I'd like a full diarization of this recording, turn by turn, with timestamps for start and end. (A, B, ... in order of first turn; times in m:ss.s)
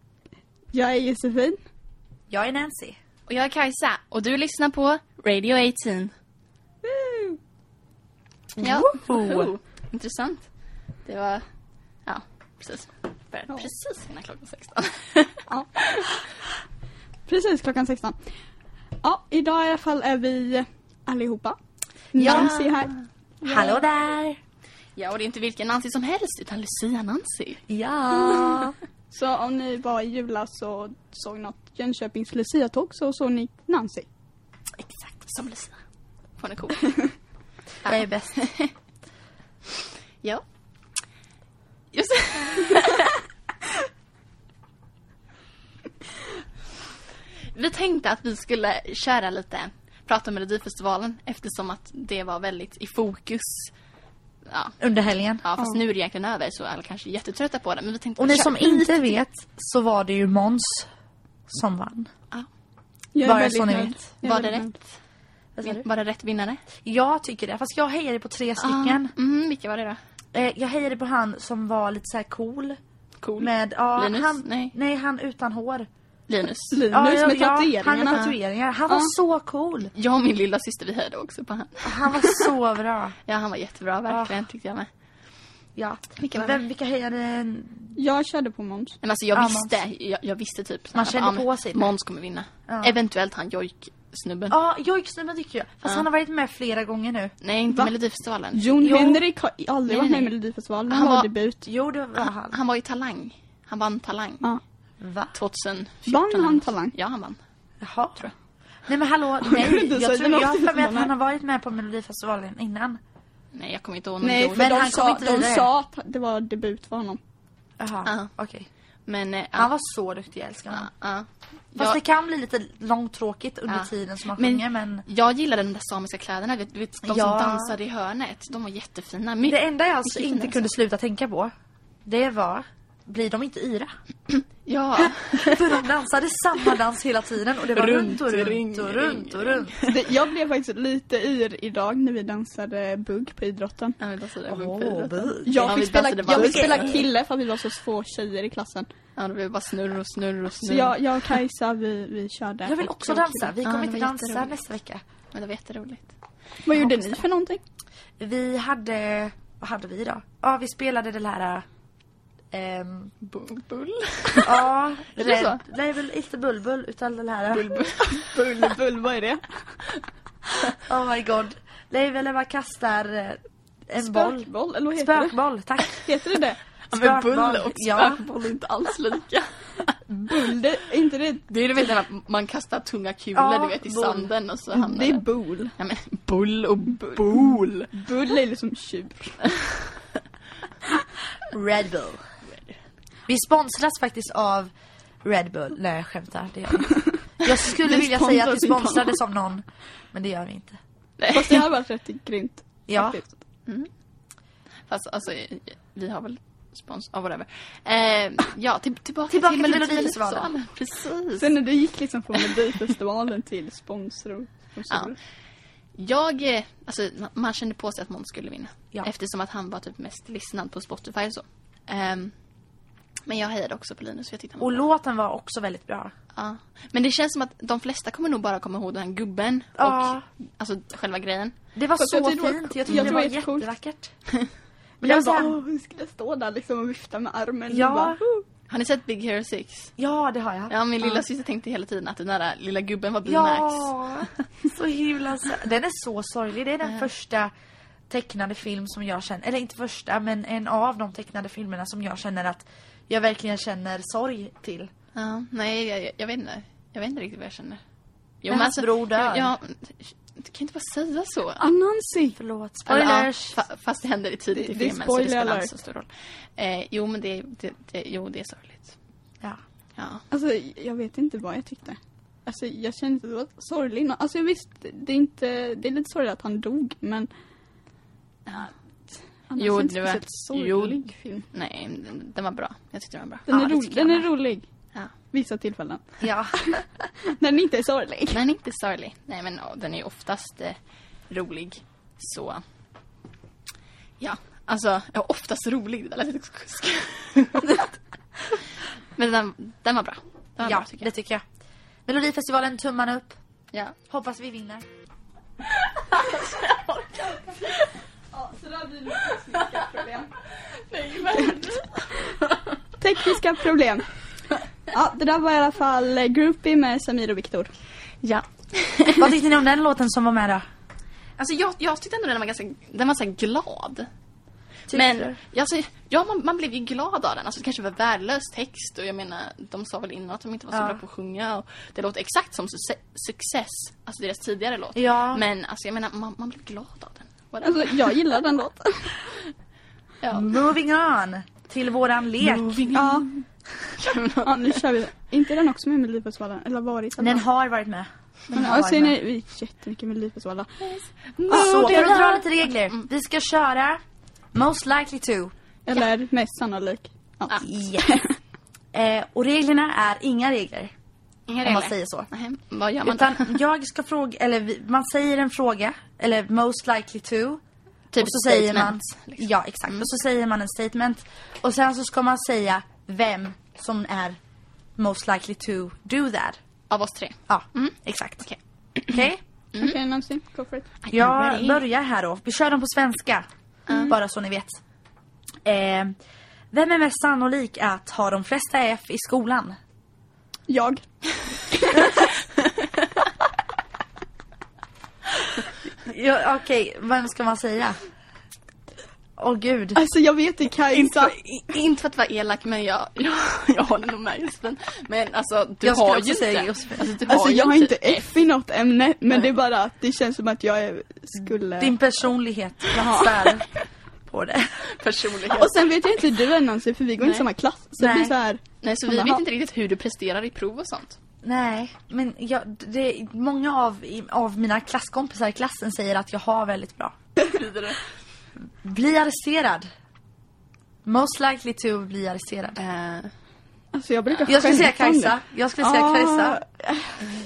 0:00.7-0:01.6 A
0:02.3-0:03.0 B
0:03.3-0:06.1 C
0:06.8-0:07.4 A
0:08.6-0:09.5 B
0:08.6-0:10.5 C
0:11.1-0:11.4 C
0:12.1-0:16.1 C
0:17.3-0:18.2 A
0:19.0-0:21.6 A
0:22.1-0:23.8 A
0:22.2-0:22.5 B
0:22.2-0:22.8 C
0:23.4-0:24.4 B
0:25.0-0:27.6 C
0:27.7-0:28.8 B
0:28.2-0:34.1 A
0:34.8-0:35.8 C
0:36.4-0:37.0 C
0:37.8-0:38.4 B
0:37.8-0:38.7 C
0:41.9-0:43.2 C
0:47.5-0:53.7 C
0:54.5-0:54.8 C
0:54.8-0:55.4 B
0:55.4-0:59.0 C
0:58.2-1:00.9 B
1:01.5-1:02.1 B
1:03.1-1:04.8 A
1:03.2-1:04.0 B
1:04.2-1:04.9 C
1:05.6-1:05.8 B
1:05.6-1:06.6 C
1:06.8-1:09.1 B
1:08.6-1:10.0 C
1:10.3-1:12.8 B
1:13.2-1:14.7 C
1:13.4-1:15.9 B
1:16.3-1:16.8 C
1:16.7-1:18.2 A
1:16.9-1:19.9 B
1:18.9-1:19.1 A
1:19.9-1:22.5 C
1:21.8-1:23.2 B
1:23.3-1:24.9 C
1:24.1-1:24.3 B
1:25.8-1:27.9 B
1:26.2-1:26.6 C
1:28.0-1:29.0 A
1:29.0-1:34.6 C
1:29.3-1:29.8 B
1:31.0-1:31.8 B
1:32.7-1:32.9 B
1:34.5-1:37.3 B
1:37.4-1:38.8 C
1:38.5-1:41.6 A
1:38.8-1:39.2 B
1:39.9-1:40.3 C
1:40.9-1:41.3 C
1:41.6-1:42.6 B
1:42.2-1:44.5 C
1:45.0-1:45.3 B
1:45.3-1:47.4 C
1:46.1-1:47.0 A
1:47.8-1:48.2 B
1:48.9-1:53.0 B
1:49.4-1:51.1 A
1:53.5-1:54.9 C
1:54.2-1:57.2 A
1:54.6-1:55.7 B
1:57.8-1:58.7 B
1:58.0-1:58.3 C
1:59.1-1:59.7 C
1:59.6-2:00.9 B
2:00.7-2:02.0 C
2:01.8-2:05.0 B
2:03.7-2:10.6 C
2:07.0-2:07.7 B
2:09.4-2:11.5 B
2:12.0-2:13.9 B
2:14.3-2:15.8 C
2:15.0-2:19.8 B
2:17.7-2:20.0 C
2:19.9-2:24.0 A
2:24.0-2:27.0 C
2:24.5-2:27.1 B
2:25.4-2:28.9 A
2:29.2-2:31.0 C
2:30.6-2:33.5 A
2:32.6-2:35.0 B
2:33.6-2:34.6 C
2:35.3-2:36.1 C
2:36.7-2:37.6 A
2:36.8-2:37.2 C
2:38.2-2:41.6 B
2:42.5-2:43.1 B
2:43.2-2:44.6 C
2:44.4-2:47.8 B
2:45.2-2:45.6 C
2:47.5-2:48.4 C
2:48.0-2:49.8 A
2:50.9-2:56.0 B
2:54.0-2:55.4 A
2:56.0-2:56.6 A
2:56.9-3:00.4 C
2:56.9-2:58.2 B
3:00.2-3:01.4 A
3:01.5-3:05.2 C
3:03.4-3:04.3 B
3:04.7-3:05.8 A
3:05.8-3:07.9 C
3:07.0-3:07.4 A
3:07.9-3:09.4 A
3:09.4-3:09.9 C
3:11.5-3:12.2 B
3:13.3-3:14.7 B
3:15.2-3:20.8 B
3:17.7-3:19.2 A
3:21.2-3:21.7 C
3:21.3-3:23.3 A
3:22.9-3:23.2 B
3:24.9-3:31.6 C
3:29.3-3:30.5 B
3:31.4-3:35.2 A
3:36.0-3:42.3 C
3:43.3-3:44.8 C
3:44.6-3:46.1 B
3:46.3-3:51.6 C
3:49.8-3:50.2 B
3:51.8-3:54.1 B
3:52.0-3:53.7 A
3:55.0-3:55.6 B
3:55.0-3:58.4 A
3:57.7-3:58.2 B
3:58.7-3:59.9 C
4:00.0-4:01.2 B
4:00.7-4:04.4 C
4:03.2-4:07.5 B
4:08.1-4:14.9 B
4:15.2-4:17.8 C
4:18.4-4:21.6 C
4:18.5-4:19.5 B
4:21.6-4:22.4 A
4:22.4-4:23.6 B
4:22.9-4:29.0 C
4:24.5-4:25.7 A
4:30.0-4:30.2 C
4:30.3-4:37.3 A
4:38.5-4:38.7 C
4:39.5-4:41.5 A
4:39.6-4:41.0 C
4:41.5-4:44.3 C
4:43.5-4:44.6 A
4:45.3-4:48.4 A
4:46.2-4:46.6 B
4:48.3-4:50.8 C
4:51.3-4:52.6 C
4:54.2-4:57.9 C
4:59.2-5:01.1 C
5:00.6-5:01.4 B
5:02.1-5:03.4 B
5:04.1-5:04.8 B
5:05.7-5:07.9 C
5:08.3-5:10.3 A
5:09.5-5:10.0 C
5:10.9-5:12.8 C
5:11.3-5:11.6 A
5:13.0-5:14.0 A
5:14.9-5:17.7 A
5:18.2-5:19.3 C
5:19.2-5:20.6 B
5:21.4-5:24.1 C
5:24.9-5:25.4 B
5:24.9-5:38.1 C
5:30.7-5:31.0 B
5:35.0-5:35.4 B
5:37.6-5:39.2 A
5:40.2-5:40.6 C
5:40.3-5:42.7 B
5:42.4-5:43.4 C
5:42.9-5:43.3 A
5:44.0-5:44.8 C
5:44.4-5:47.4 A
5:47.2-5:49.1 B
5:48.5-5:50.9 A
5:50.8-5:53.1 C
5:51.4-5:52.4 A
5:51.5-5:54.0 B
5:54.5-5:55.5 B
5:55.9-5:58.4 A
5:57.6-5:58.1 B
5:58.9-6:00.9 B
6:01.5-6:03.6 C
6:01.6-6:02.3 B
6:03.0-6:07.6 B
6:08.1-6:10.1 C
6:08.2-6:14.4 B
6:15.0-6:16.6 B
6:16.9-6:19.2 C
6:17.5-6:18.5 B
6:19.1-6:19.4 B
6:19.8-6:20.9 A
6:21.0-6:21.8 C
6:21.1-6:23.5 B
6:23.9-6:24.1 C
6:24.1-6:24.8 B
6:25.6-6:26.1 B
6:26.7-6:29.8 B
6:30.7-6:31.0 A
6:31.6-6:32.3 A
6:36.0-6:38.0 B
6:39.4-6:40.0 B
6:40.0-6:41.4 A
6:40.9-6:48.3 C
6:45.8-6:47.1 B
6:47.3-6:52.0 A
6:51.8-6:53.7 B
6:53.0-6:53.5 A
6:54.3-6:54.8 B
6:54.8-6:55.9 C
6:55.5-6:59.4 A
6:57.2-6:57.5 C
6:58.0-6:58.4 B
6:58.8-7:01.2 C
7:01.4-7:07.2 B
7:07.4-7:08.0 C
7:08.8-7:09.9 B
7:11.0-7:12.8 B
7:12.8-7:13.3 C
7:13.9-7:17.3 A
7:14.3-7:14.8 C
7:14.5-7:16.6 B